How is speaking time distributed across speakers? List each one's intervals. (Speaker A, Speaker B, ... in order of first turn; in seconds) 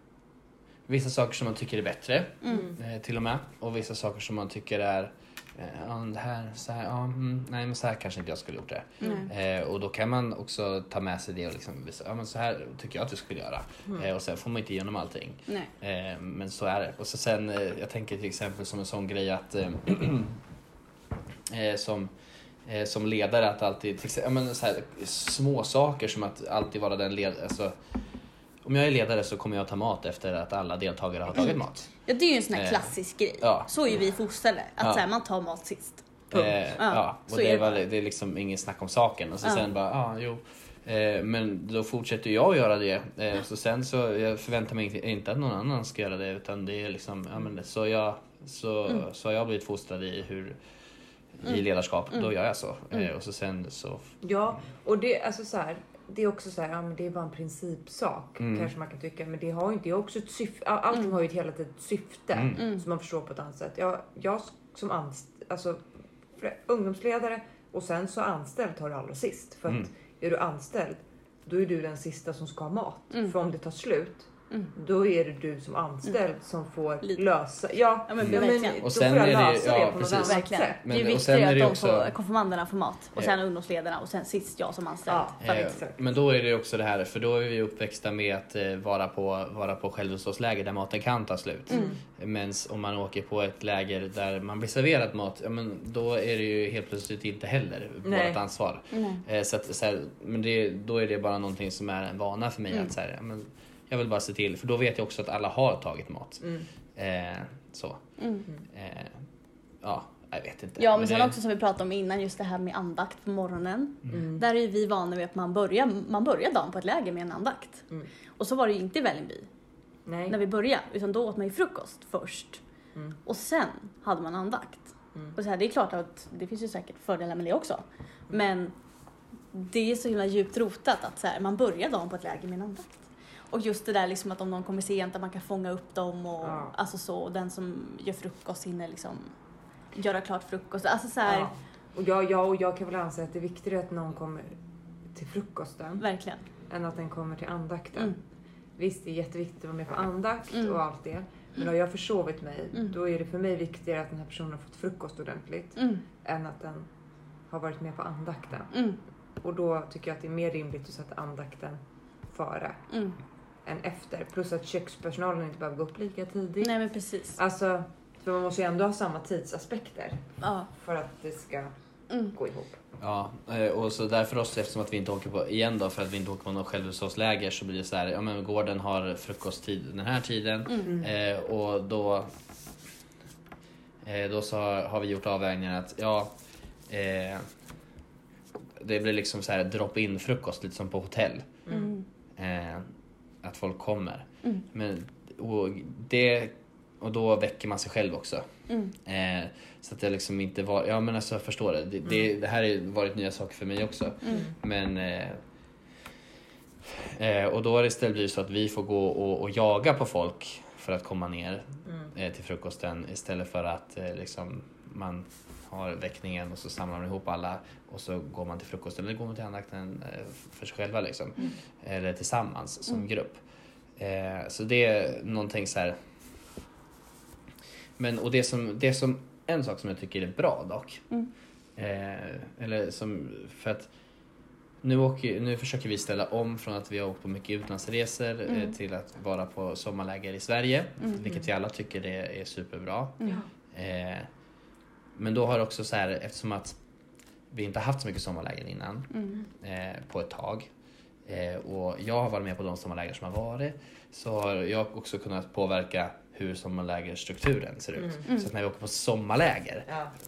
Speaker A: 0.9-20.4, 21.5-22.1, 22.7-27.7, 28.6-31.9, 32.5-33.7, 36.3-50.6, 51.4-54.1, 58.4-58.7, 62.3-62.6, 78.2-82.1, 85.4-106.4, 107.0-108.0, 108.7-109.2, 109.8-111.4, 173.0-182.3, 184.0-186.3, 186.9-187.4, 188.8-191.6, 192.4-192.9, 193.4-198.5, 199.0-205.4, 206.9-223.4, 224.0-226.0, 228.0-231.0, 231.8-233.9, 234.8-244.3, 245.2-246.8, 247.5-250.7, 251.2-259.9
Speaker B: 2.4-2.7, 9.0-9.3, 32.1-36.1, 36.8-37.8, 62.6-62.8, 78.1-78.8, 80.2-85.7, 98.9-99.2, 108.2-108.5, 110.8-117.9, 118.4-119.5, 120.3-122.6, 123.3-128.8, 129.5-132.9, 133.5-139.3, 139.9-141.5, 146.0-146.4, 155.8-156.0, 158.7-159.0, 162.9-163.2, 166.6-167.4, 170.4-170.7, 172.1-172.3, 191.7-192.1, 198.7-198.9, 238.5-238.7, 249.1-249.4
Speaker C: 54.2-65.8, 66.4-80.8, 85.1-86.0, 91.7-92.0, 98.0-98.4, 114.1-114.4, 120.1-120.4, 136.4-136.7, 141.3-144.6, 145.1-146.0, 146.7-148.2, 148.8-156.9, 157.5-158.7, 159.4-162.9, 163.7-166.8, 167.4-170.2, 170.7-171.7, 172.3-172.8, 180.8-181.1, 191.7-191.9, 259.9-260.1